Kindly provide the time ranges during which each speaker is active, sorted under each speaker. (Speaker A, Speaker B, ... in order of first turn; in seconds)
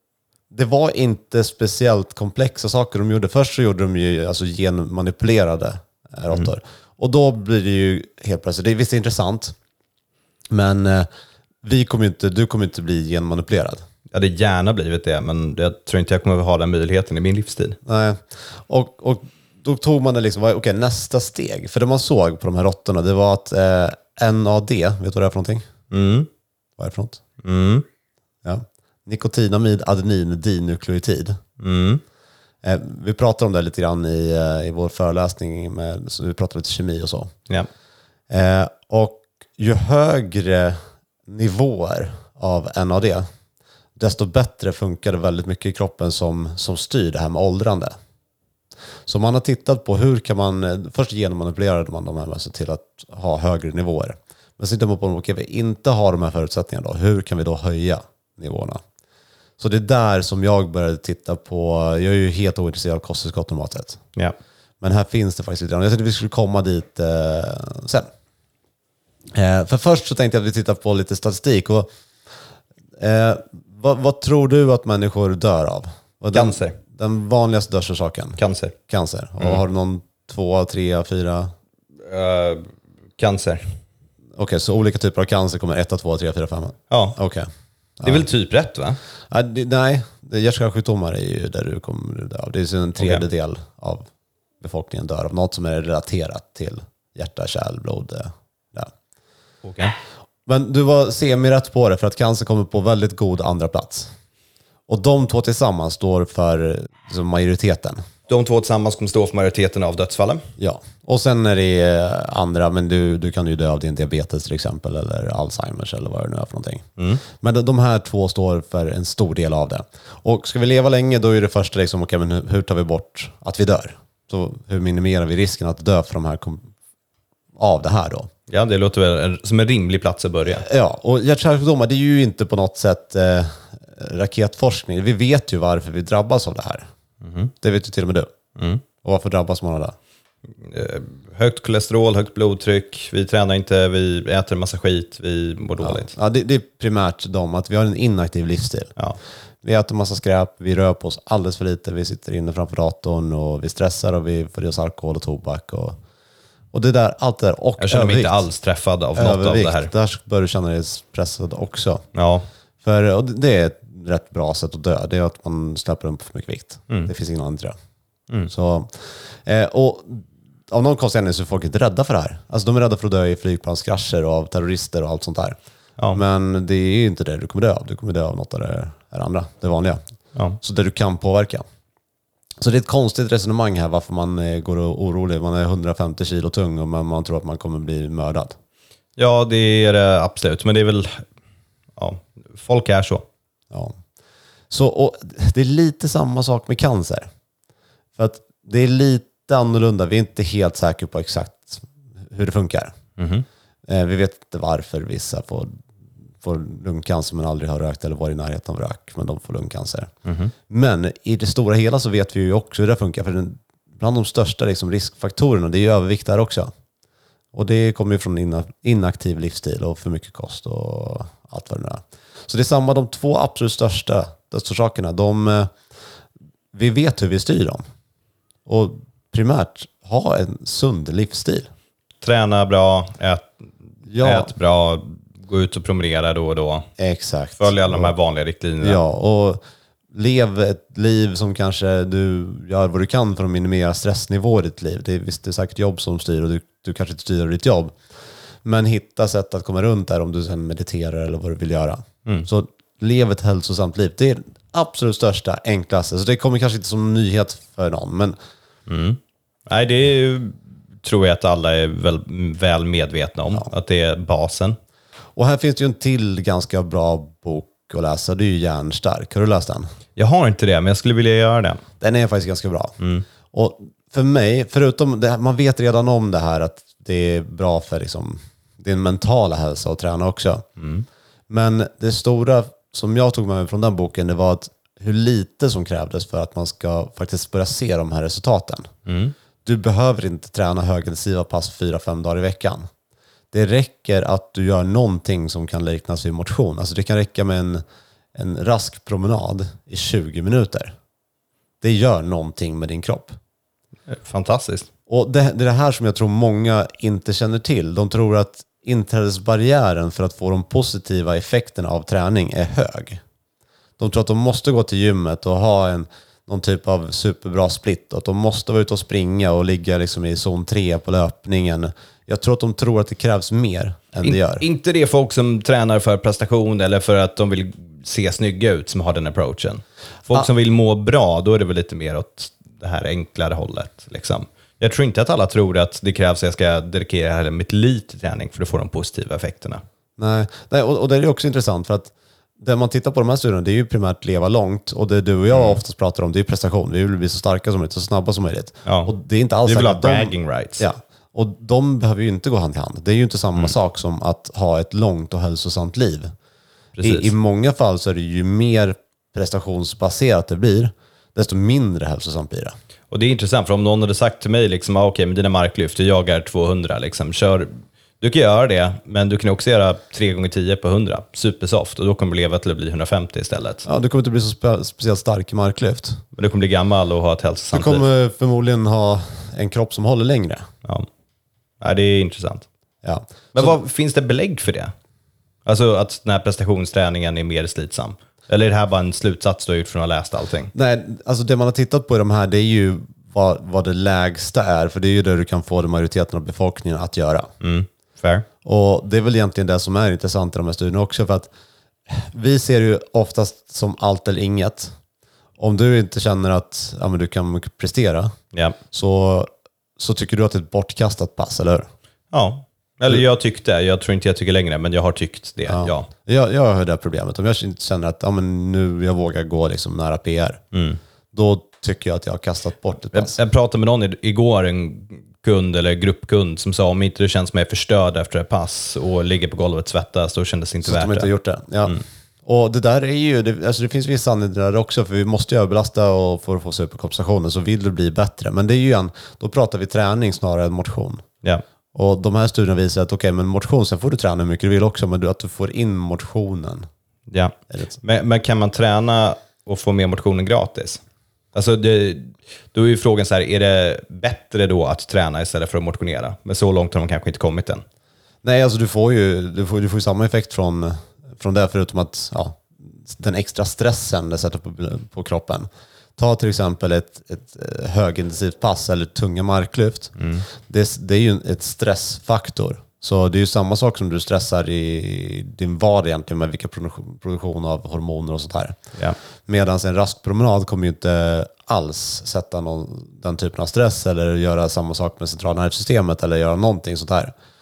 Speaker A: 0.5-9.6, 10.5-11.1, 11.6-13.8, 17.9-25.7, 26.8-27.2, 28.4-31.4, 32.6-37.3, 38.3-43.2, 44.0-48.0, 49.1-58.8, 59.6-64.0, 64.8-68.1, 69.3-71.9, 73.0-81.5, 84.4-87.5, 88.0-88.3, 89.3-94.0, 94.6-98.9, 100.5-104.1, 104.9-108.0, 110.6-126.7, 127.6-128.3, 130.6-136.9, 137.6-138.3, 139.0-140.0, 145.8-148.9, 149.6-156.0, 156.7-158.4, 159.2-162.1, 162.8-167.8, 168.5-175.6, 176.1-180.0, 180.6-181.6, 182.6-188.6, 194.7-197.3, 198.2-203.0, 203.9-205.7, 206.4-210.1, 210.7-216.7, 217.5-225.7, 226.7-227.8, 228.7-231.7, 234.1-234.5, 237.0-238.1, 238.8-239.6, 240.1-247.9, 248.6-258.4, 265.4-269.9, 272.0-273.0, 273.5-280.6, 281.5-288.9, 289.6-292.9, 293.5-297.8, 298.4-300.9, 301.8-303.4, 305.1-313.2, 314.0-324.6, 340.2-356.3, 357.0-362.8, 373.9-376.2, 377.7-380.7, 383.0-383.8, 390.7-397.5, 398.6-401.5, 402.1-404.9, 405.6-408.3, 408.9-411.9, 415.7-420.6, 421.3-423.4, 430.9-441.2, 441.9-446.9, 458.4-478.8, 479.5-487.3
Speaker B: 14.1-17.8, 25.9-26.3, 27.4-27.9, 31.6-32.0, 76.3-76.8, 78.4-78.8, 82.1-83.8, 86.9-87.2, 88.0-89.0, 93.0-93.2, 99.6-99.9, 108.3-110.5, 128.5-130.7, 137.2-137.5, 138.6-138.8, 140.6-146.1, 157.8-159.9, 162.1-162.5, 189.2-191.2, 192.0-193.3, 203.2-203.4, 210.3-210.5, 232.2-233.5, 234.2-236.9, 237.6-239.0, 258.9-264.8, 270.2-271.8, 273.0-273.2, 280.8-281.1, 289.1-289.3, 304.1-304.9, 324.2-339.8, 345.5-345.8, 348.9-349.1, 349.7-350.9, 356.9-357.3, 363.1-373.9, 376.4-378.1, 381.8-382.7, 383.5-384.9, 385.7-390.7, 397.6-398.5, 408.5-408.8, 412.3-416.1, 420.7-421.0, 423.1-431.3, 447.3-451.0, 451.5-457.8, 470.2-470.5